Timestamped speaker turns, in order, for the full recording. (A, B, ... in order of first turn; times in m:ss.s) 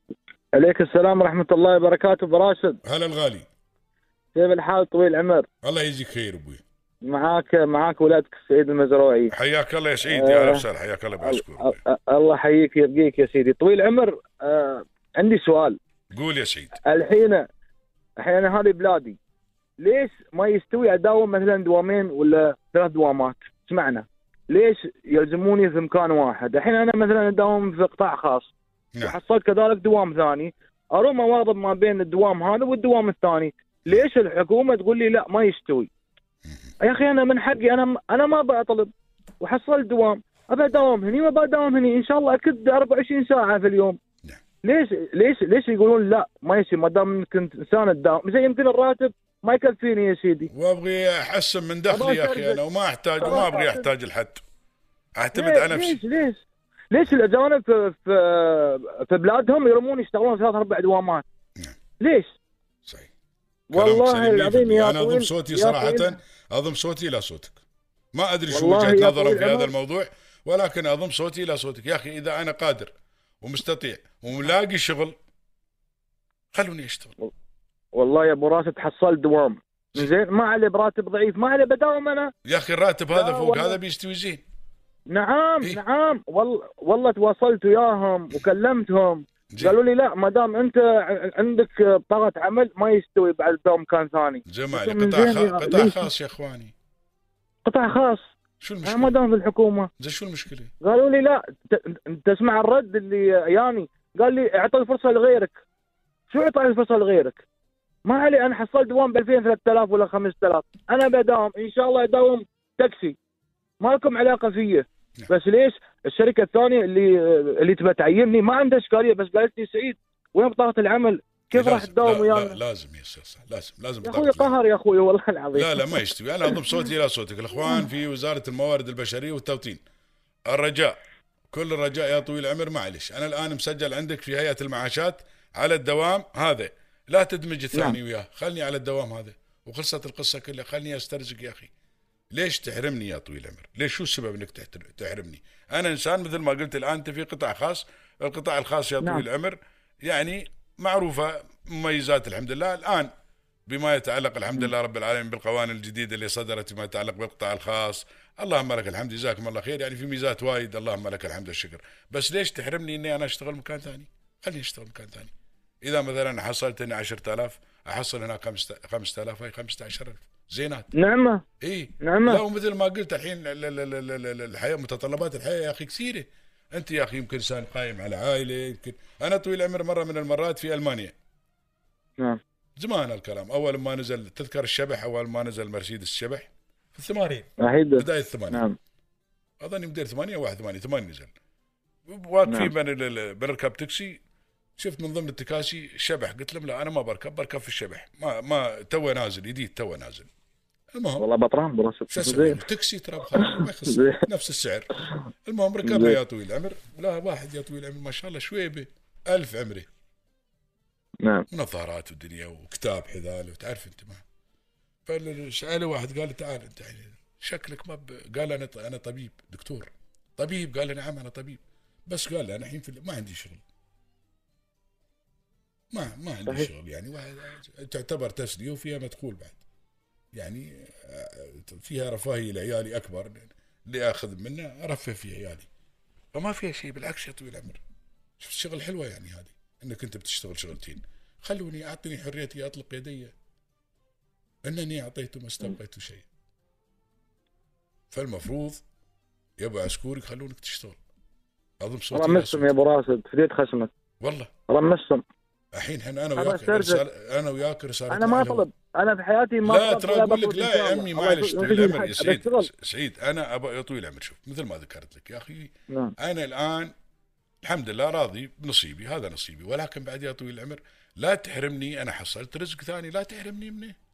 0:00.5-0:02.8 A
0:02.8-0:03.5 B
0:04.3-0:05.5 A
0:05.6-0:06.6 B
0:07.0-0:09.3 A
0:09.3-0:11.8 B
0:10.0-0:10.6 A
0:11.2-0:15.8 A
0:16.1-0:16.8 B
0:16.8-0:17.4 A
0:18.2-0:19.2 A
0:19.8-0:35.9 A
0:36.4-0:36.7 B
0:36.8-0:44.0 A
0:44.6-0:50.5 A
0:50.5-0:54.4 B
0:51.9-0:52.6 A
0:53.2-0:53.9 A
0:55.2-0:56.0 B
0:55.3-1:01.2 A
1:02.0-1:02.4 A
1:02.8-1:03.1 B
1:03.7-1:06.2 A
1:03.7-1:07.6 B
1:08.1-1:15.2 B
1:08.5-1:09.7 A
1:16.5-1:17.2 B
1:17.9-1:22.3 A
1:22.4-1:24.4 B
1:23.1-1:23.8 A
1:25.1-1:36.1 A
1:34.5-1:36.7 B
1:37.6-1:38.3 A
1:38.6-1:39.2 B
1:38.8-1:39.9 A
1:40.0-1:40.7 B
1:40.8-1:45.6 A
1:46.3-1:47.4 A
1:48.0-1:53.2 A
1:53.8-2:02.6 A
2:01.5-2:04.6 B
2:04.0-2:06.5 A
2:05.5-2:09.8 B
2:10.5-2:11.0 B
2:11.5-2:21.7 B
2:17.7-2:18.0 A
2:22.3-2:33.1 B
2:33.7-2:45.3 B
2:45.8-2:50.9 B
2:50.9-2:51.4 A
2:51.6-3:01.1 B
2:52.0-2:52.4 A
3:02.8-3:08.6 B
3:07.6-3:08.8 A
3:09.6-3:11.3 B
3:12.0-3:14.2 B
3:12.4-3:12.7 A
3:14.8-3:20.3 B
3:20.9-3:21.2 B
3:21.2-3:22.6 A
3:22.1-3:29.9 B
3:23.3-3:24.2 A
3:25.8-3:26.2 A
3:31.5-3:34.2 B
3:35.0-3:43.6 B
3:45.9-3:49.6 B
3:50.3-3:55.7 B
3:56.3-3:57.8 B
3:58.4-4:03.3 B
4:04.6-4:06.3 B
4:08.1-4:08.8 B
4:09.6-4:11.0 B
4:11.8-4:12.7 B
4:12.1-4:13.9 A
4:14.2-4:14.5 B
4:14.7-4:15.2 A
4:15.7-4:18.7 B
4:16.4-4:17.0 A
4:18.1-4:22.7 A
4:19.6-4:26.9 B
4:25.9-4:26.1 A
4:27.6-4:34.0 B